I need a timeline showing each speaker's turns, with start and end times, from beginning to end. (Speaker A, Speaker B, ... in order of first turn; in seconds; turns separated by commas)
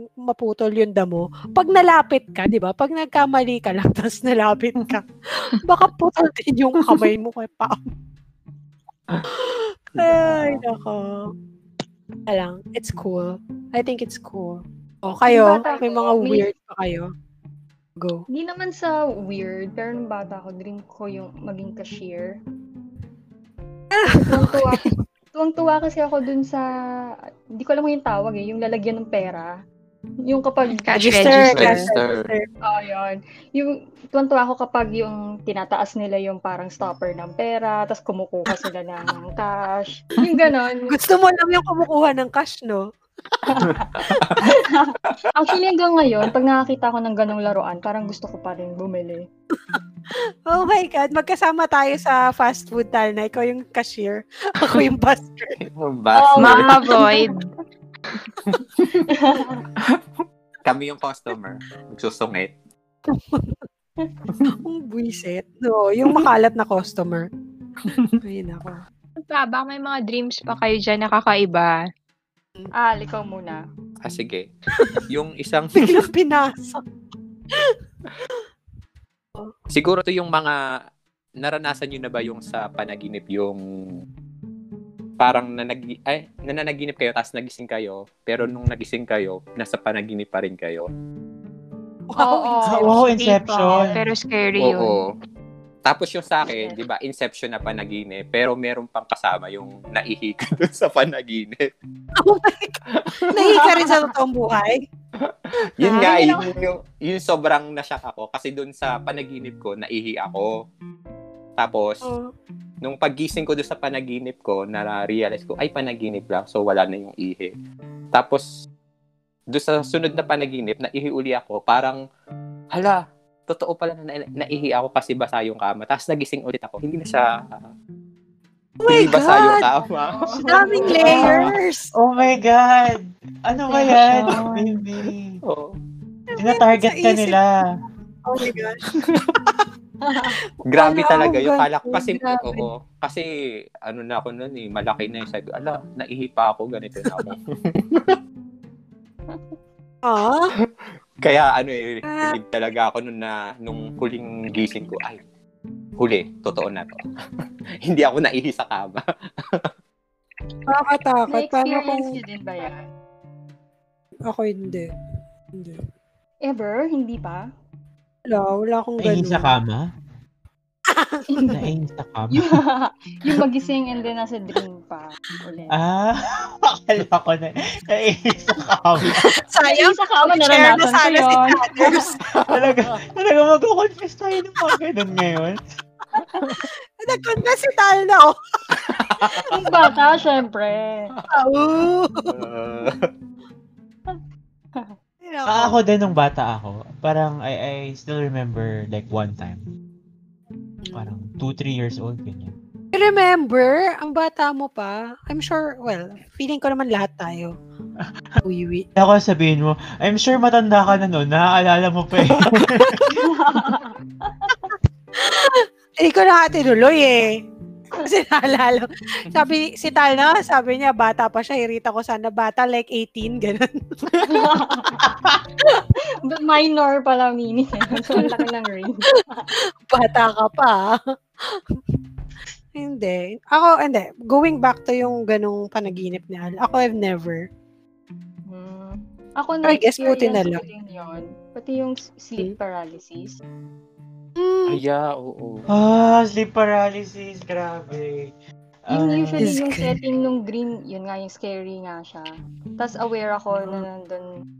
Speaker A: 0.2-7.9, Speaker A: 9.3-11.3, Speaker B: 10.0-10.6, Speaker A: 12.3-17.1, Speaker C: 15.2-16.5, Speaker A: 18.0-18.2, Speaker C: 18.3-22.4, Speaker A: 23.9-24.8, Speaker C: 24.0-26.7, Speaker C: 27.6-29.5, Speaker C: 30.3-31.6, Speaker D: 30.8-31.8, Speaker A: 31.0-32.5, Speaker B: 31.5-32.3, Speaker C: 32.6-40.9, Speaker A: 40.9-42.9, Speaker C: 43.5-49.2, Speaker B: 43.6-44.4, Speaker A: 50.5-55.6, Speaker B: 55.6-56.8, Speaker C: 56.1-57.3, Speaker D: 56.4-57.5, Speaker B: 58.4-59.1, Speaker C: 59.1-59.6, Speaker B: 59.8-60.0, Speaker B: 60.6-62.5, Speaker A: 63.1-63.6, Speaker B: 64.3-64.5, Speaker A: 64.5-67.3, Speaker B: 67.9-68.2, Speaker A: 68.2-68.8, Speaker D: 69.3-71.8, Speaker C: 72.7-73.6, Speaker B: 74.0-74.5, Speaker B: 75.1-76.1, Speaker A: 75.8-76.8, Speaker B: 79.7-80.6, Speaker B: 81.4-83.6, Speaker B: 85.2-90.9, Speaker A: 92.1-93.0, Speaker C: 92.2-94.0, Speaker E: 92.7-94.0, Speaker D: 93.8-94.9, Speaker B: 94.6-95.1, Speaker B: 95.8-101.6, Speaker C: 96.5-96.8, Speaker A: 102.2-104.8, Speaker B: 102.9-103.5, Speaker C: 103.5-104.0, Speaker B: 105.2-110.5, Speaker A: 105.8-106.5, Speaker B: 111.6-112.1, Speaker A: 112.0-112.3, Speaker B: 112.8-117.5, Speaker B: 118.1-118.4, Speaker B: 119.5-122.0, Speaker B: 122.7-127.2, Speaker B: 128.8-131.5, Speaker A: 128.8-129.7, Speaker C: 130.0-131.4, Speaker A: 130.3-131.9, Speaker E: 131.1-131.4, Speaker E: 131.9-135.4, Speaker D: 134.1-134.7, Speaker B: 135.4-135.8, Speaker E: 136.4-137.5, Speaker A: 136.4-137.4, Speaker A: 138.2-139.0, Speaker B: 139.0-139.6, Speaker C: 140.0-140.4, Speaker B: 140.7-143.3, Speaker A: 140.8-142.7, Speaker B: 143.9-148.2, Speaker A: 150.0-150.5, Speaker B: 151.2-155.2, Speaker A: 152.1-152.4, Speaker B: 156.0-157.0, Speaker B: 157.8-159.7, Speaker A: 160.7-162.2, Speaker C: 161.3-162.8, Speaker A: 164.3-164.9, Speaker A: 165.6-165.8, Speaker C: 166.4-167.4, Speaker A: 168.3-169.5, Speaker E: 169.0-169.8, Speaker A: 170.9-171.2, Speaker E: 171.5-172.6, Speaker C: 172.3-175.8, Speaker E: 175.7-179.3, Speaker A: 179.2-182.2, Speaker C: 179.7-182.1, Speaker B: 182.2-182.9, Speaker E: 182.5-185.6, Speaker C: 186.2-186.4, Speaker B: 186.3-186.6, Speaker A: 186.6-188.3, Speaker B: 188.7-189.6, Speaker A: 189.0-189.6, Speaker C: 189.5-191.1, Speaker A: 191.3-192.3, Speaker B: 192.2-193.1, Speaker A: 195.2-195.8, Speaker E: 195.5-199.6, Speaker A: 200.8-201.1, Speaker E: 200.9-202.5, Speaker A: 202.9-207.5, Speaker A: 208.4-208.9, Speaker E: 208.9-213.2, Speaker B: 212.3-213.1, Speaker C: 213.2-214.7, Speaker A: 215.2-217.3, Speaker A: 218.0-223.8, Speaker C: 224.2-225.1, Speaker C: 226.2-229.1, Speaker A: 228.1-228.4, Speaker A: 229.9-230.8, Speaker A: 231.5-231.8, Speaker A: 232.8-237.4, Speaker C: 238.5-243.4, Speaker A: 239.6-240.6, Speaker A: 244.4-244.8, Speaker B: 244.7-245.7, Speaker E: 245.7-248.3, Speaker E: 248.9-249.5, Speaker C: 248.9-252.2, Speaker A: 249.4-250.0, Speaker C: 252.8-254.2